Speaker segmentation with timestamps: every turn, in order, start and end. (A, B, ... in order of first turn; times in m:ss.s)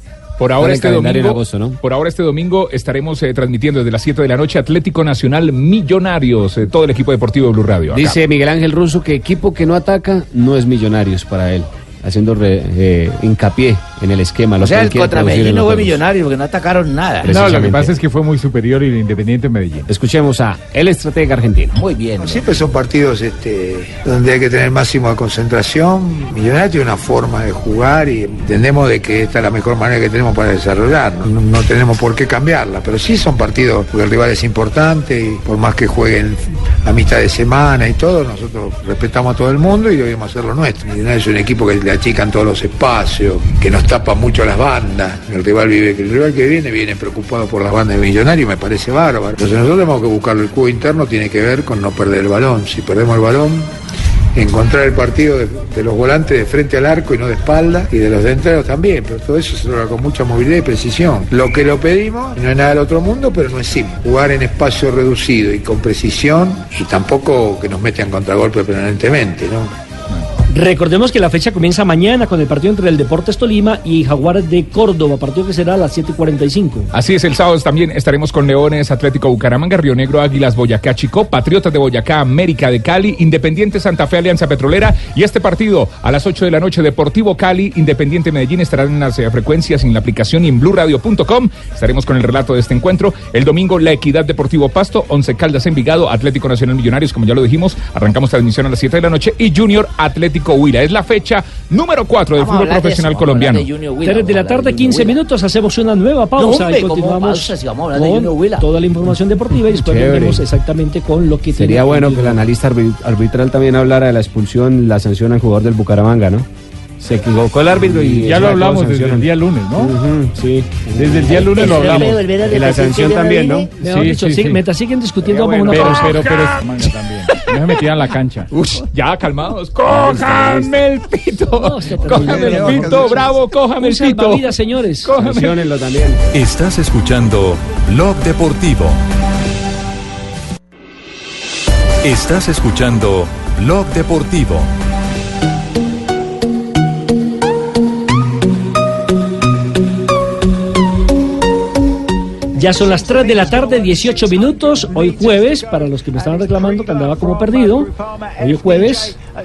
0:00.4-0:08.2 A
0:00.6-0:01.8 B
0:07.9-0:16.0 B
0:14.6-0:17.5 C
0:17.2-0:18.0 B
0:17.2-0:19.9 D
0:19.9-0:21.8 B
0:21.8-0:22.6 C
0:22.2-0:53.7 E
0:54.4-1:09.7 E
1:10.5-1:16.9 F
1:16.9-1:43.7 A
1:42.4-1:45.2 C
1:44.0-1:52.4 F
1:46.4-1:48.7 C
1:49.7-1:50.4 B
1:51.5-1:56.5 B
1:57.0-2:03.7 B
1:58.0-2:00.0 D
2:00.9-2:02.3 D
2:01.3-2:03.7 C
2:03.8-2:04.6 D
2:03.8-2:06.2 F
2:05.4-2:06.6 A
2:05.7-2:08.5 D
2:07.3-2:07.5 A
2:08.5-2:15.6 A
2:10.1-2:10.6 B
2:11.6-2:15.1 F
2:15.1-2:16.2 B
2:16.3-2:19.0 G
2:22.0-2:24.7 G
2:32.6-2:39.2 F